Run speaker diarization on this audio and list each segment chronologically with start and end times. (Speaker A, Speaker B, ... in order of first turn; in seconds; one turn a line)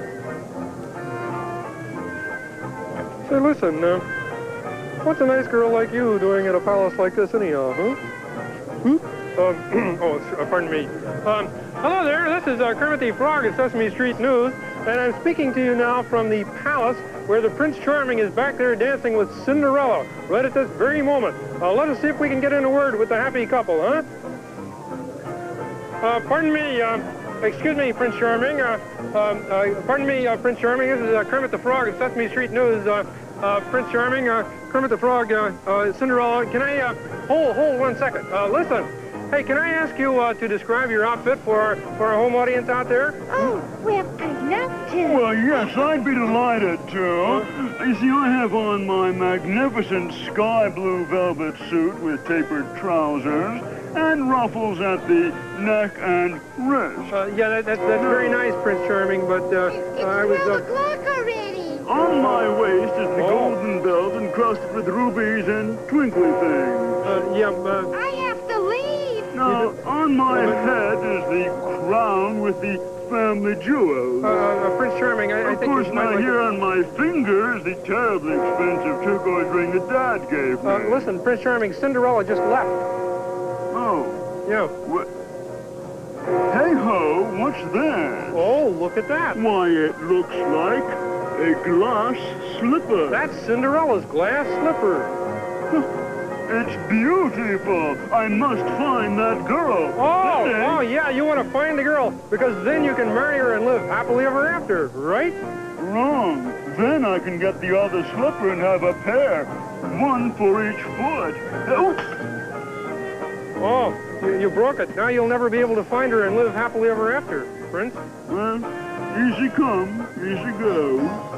Speaker A: 3.2-4.0
Speaker A: 5.0-8.0
Speaker A: 8.8-24.1
Speaker A: 26.0-43.5
Speaker B: 43.3-45.2
Speaker C: 44.9-57.2
Speaker A: 57.1-60.6
Speaker C: 57.9-58.4
Speaker B: 59.8-61.8
Speaker C: 61.8-67.2
Speaker A: 63.1-63.5
Speaker A: 67.0-67.9
Speaker B: 67.9-69.3
Speaker C: 69.3-74.4
Speaker A: 69.4-69.8
Speaker A: 70.3-70.6
Speaker A: 74.2-76.4
Speaker C: 75.4-81.1
Speaker A: 80.6-82.8
Speaker C: 83.7-84.2
Speaker A: 84.4-84.7
Speaker C: 86.5-88.6
Speaker A: 88.3-89.4
Speaker C: 89.3-93.3
Speaker A: 93.1-95.1
Speaker C: 96.5-100.8
Speaker A: 99.9-105.4
Speaker C: 105.8-112.2
Speaker A: 113.6-118.0
Speaker C: 118.3-121.2